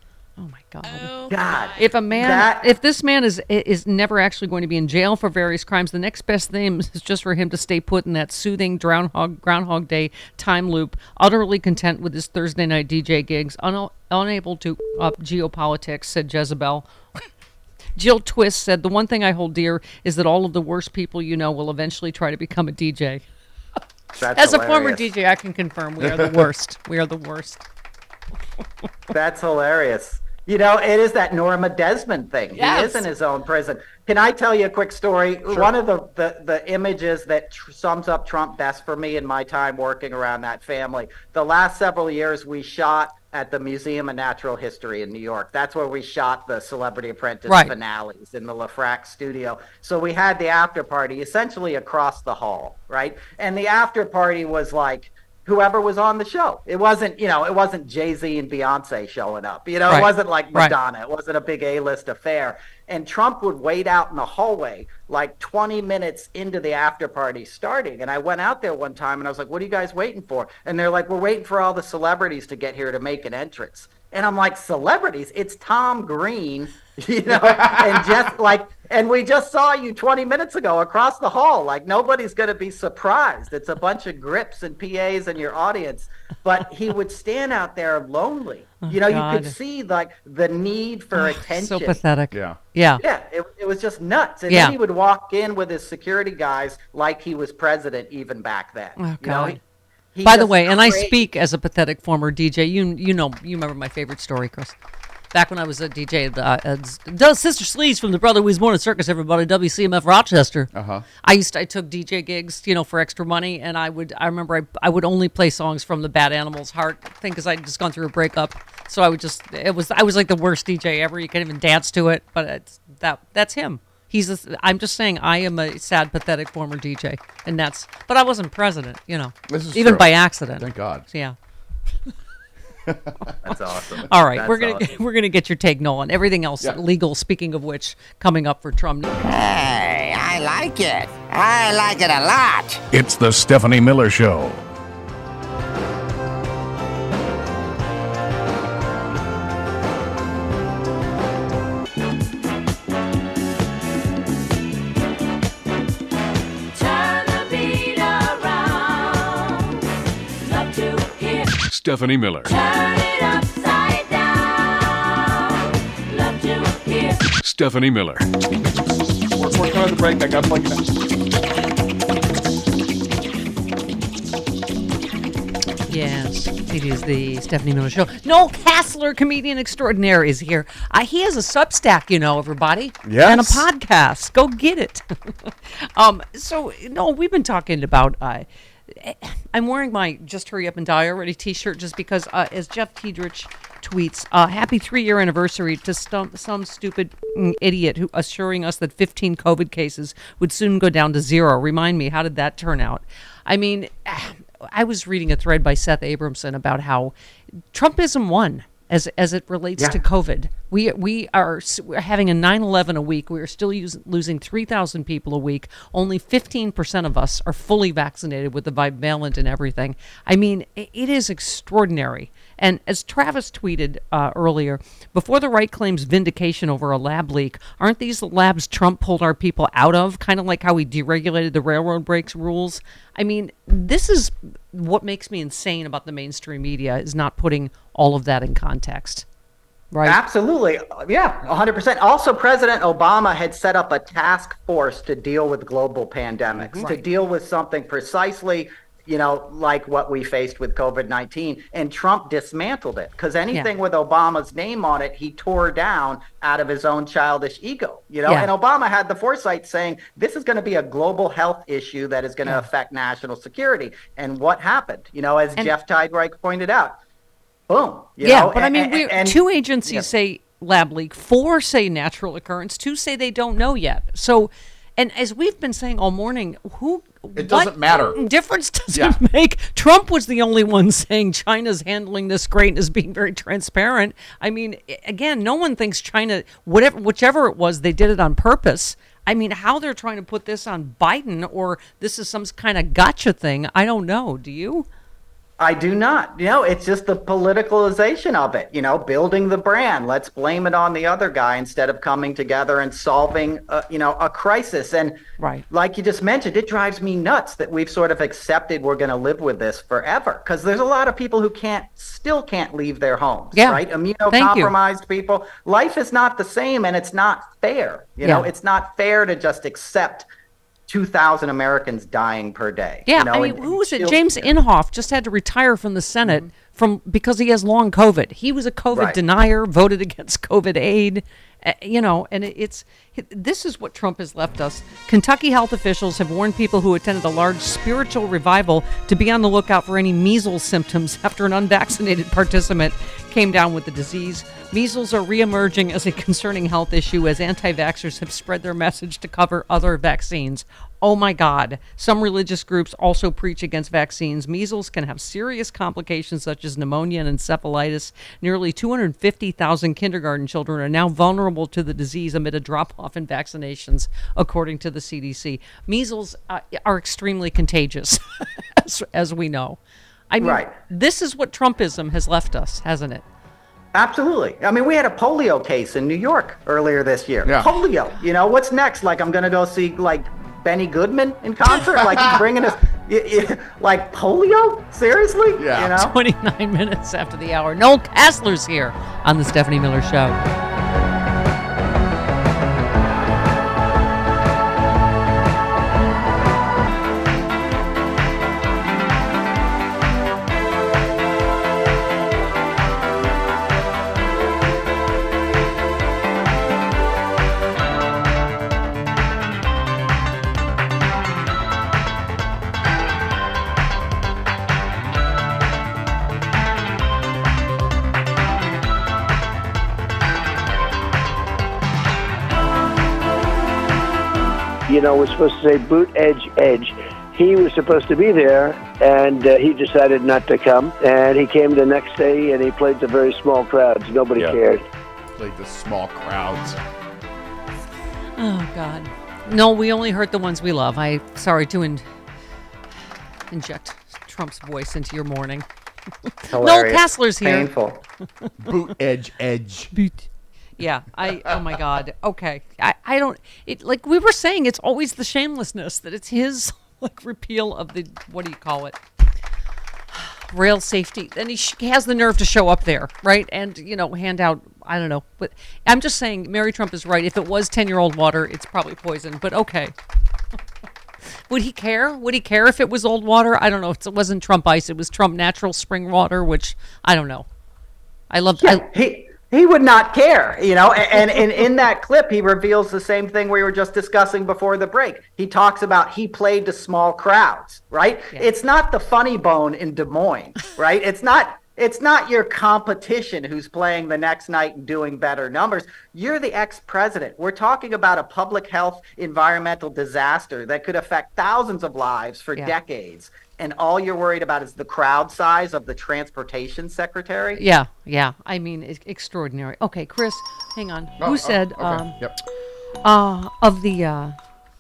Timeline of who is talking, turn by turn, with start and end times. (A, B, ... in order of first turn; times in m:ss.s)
0:00.4-0:16.9 A
0:01.3-0:02.6 B
0:18.0-0:23.2 A
0:24.2-0:25.1 B
0:24.4-0:27.6 A
0:26.0-0:26.5 C
0:29.1-1:32.0 B
0:32.6-0:33.1 A
0:47.5-0:47.7 A
0:59.9-1:00.8 A
1:17.3-1:18.3 C
1:28.8-1:29.6 A
1:31.2-1:33.0 A
1:32.3-1:32.6 C
1:33.0-1:39.6 B
1:34.5-1:34.8 A
1:39.0-1:39.6 A
1:40.1-1:41.3 B
1:40.2-1:44.8 A
1:45.3-1:50.7 A
1:50.7-1:51.0 C
1:51.2-2:11.4 A
2:09.5-2:11.1 C
2:12.9-2:13.3 C
2:13.4-2:14.9 B
2:14.1-2:19.0 A
2:19.2-2:22.8 D
2:22.9-2:24.6 E
2:36.8-2:39.8 F
2:40.5-2:41.6 F
2:41.8-2:42.2 E
2:42.5-2:45.6 F
2:46.1-2:47.3 F
2:47.4-2:47.9 E
2:49.4-2:50.8 G
2:55.9-3:27.1 A
3:03.0-3:03.7 G
3:27.7-3:59.2 A
3:59.9-4:00.2 A
4:00.0-4:27.0 B
4:27.7-4:30.1 B
4:28.2-4:54.9 A
4:37.4-4:38.2 C
4:38.9-4:39.2 C
4:55.6-5:20.3 B
5:05.4-5:05.6 A
5:13.6-5:14.7 A
5:18.2-5:18.5 A
5:20.9-5:24.5 B
5:23.1-6:09.8 A
5:28.9-5:29.2 B
6:10.3-6:13.2 A
6:10.4-6:10.7 B
6:13.9-6:26.1 B
6:17.4-6:17.7 C
6:21.8-6:22.5 C
6:25.6-6:26.0 C
6:26.0-6:30.4 A
7:04.9-7:14.8 H
7:15.3-7:16.8 C
7:18.4-7:22.0 A
7:23.5-7:25.7 A
7:26.5-7:28.0 B
7:26.6-7:27.7 A
7:28.6-7:29.9 C
7:29.9-7:30.3 A
7:30.8-7:39.0 A
7:40.2-7:49.9 A
7:51.5-7:57.5 A
7:58.3-7:58.8 A
7:58.6-8:27.6 B
8:27.5-8:32.2 A
8:31.2-8:32.4 C
8:33.0-8:34.4 A